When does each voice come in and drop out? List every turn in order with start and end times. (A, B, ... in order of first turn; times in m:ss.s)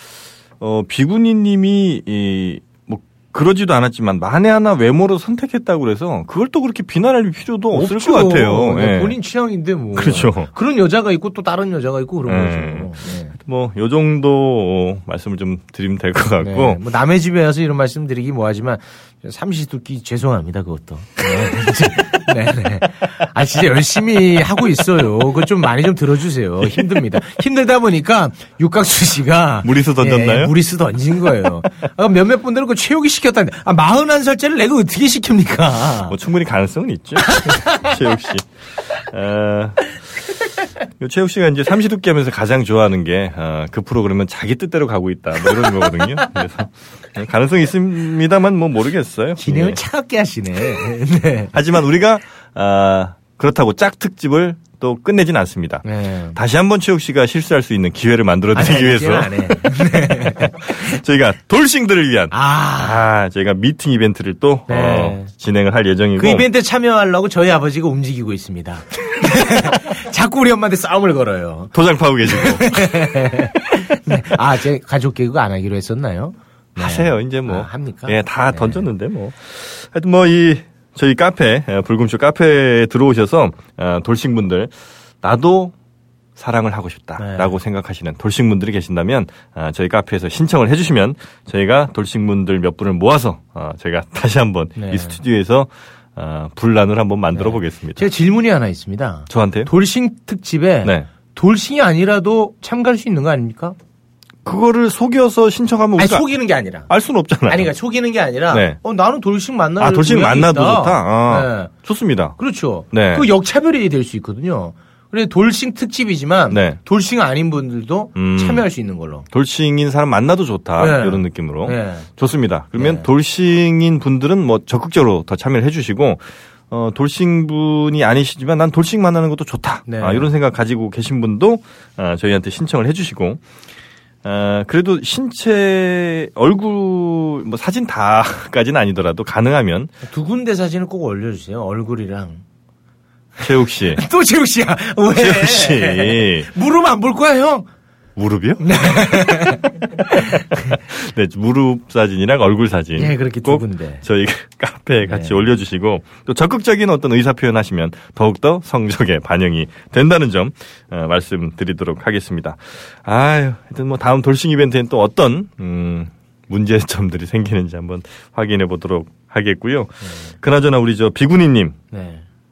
0:00.6-0:09.2 A
0:07.7-0:13.3 B
0:09.9-0:10.5 A
0:12.3-0:16.8 A
0:16.4-0:36.2 B
0:29.6-0:30.5 A
0:36.1-0:38.5 A
0:39.0-0:39.9 A
0:41.0-0:49.8 A
0:49.4-0:51.5 B
0:51.5-1:06.5 A
0:55.8-0:56.4 B
0:58.5-1:00.8 B
1:02.3-1:03.0 B
1:04.7-1:05.3 B
1:06.2-1:11.7 B
1:11.7-1:13.0 A
1:12.3-1:18.9 B
1:16.8-1:25.7 A
1:26.4-1:38.0 A
1:27.2-1:27.5 B
1:34.8-1:35.2 B
1:37.3-1:43.8 B
1:39.3-1:39.7 A
1:40.8-1:41.1 A
1:44.4-1:46.3 A
1:46.0-1:46.9 B
1:46.9-1:47.7 A
1:47.5-1:51.7 B
1:48.5-1:48.8 A
1:49.8-1:52.3 A
1:52.4-1:59.2 B
1:52.9-1:53.3 A
1:56.5-1:56.8 A
1:58.1-1:58.6 A
1:59.3-2:13.4 A
2:00.8-2:02.1 B
2:02.8-2:03.1 B
2:09.8-2:10.3 B
2:14.2-2:19.9 A
2:20.0-2:22.4 B
2:23.4-2:24.0 A
2:23.9-2:27.7 B
2:25.1-2:26.5 A
2:28.2-2:29.6 A
2:28.6-2:30.8 B
2:30.7-2:51.8 A
2:33.0-2:34.0 B
2:35.0-2:35.4 B
2:50.0-2:50.3 B
2:51.9-2:52.2 B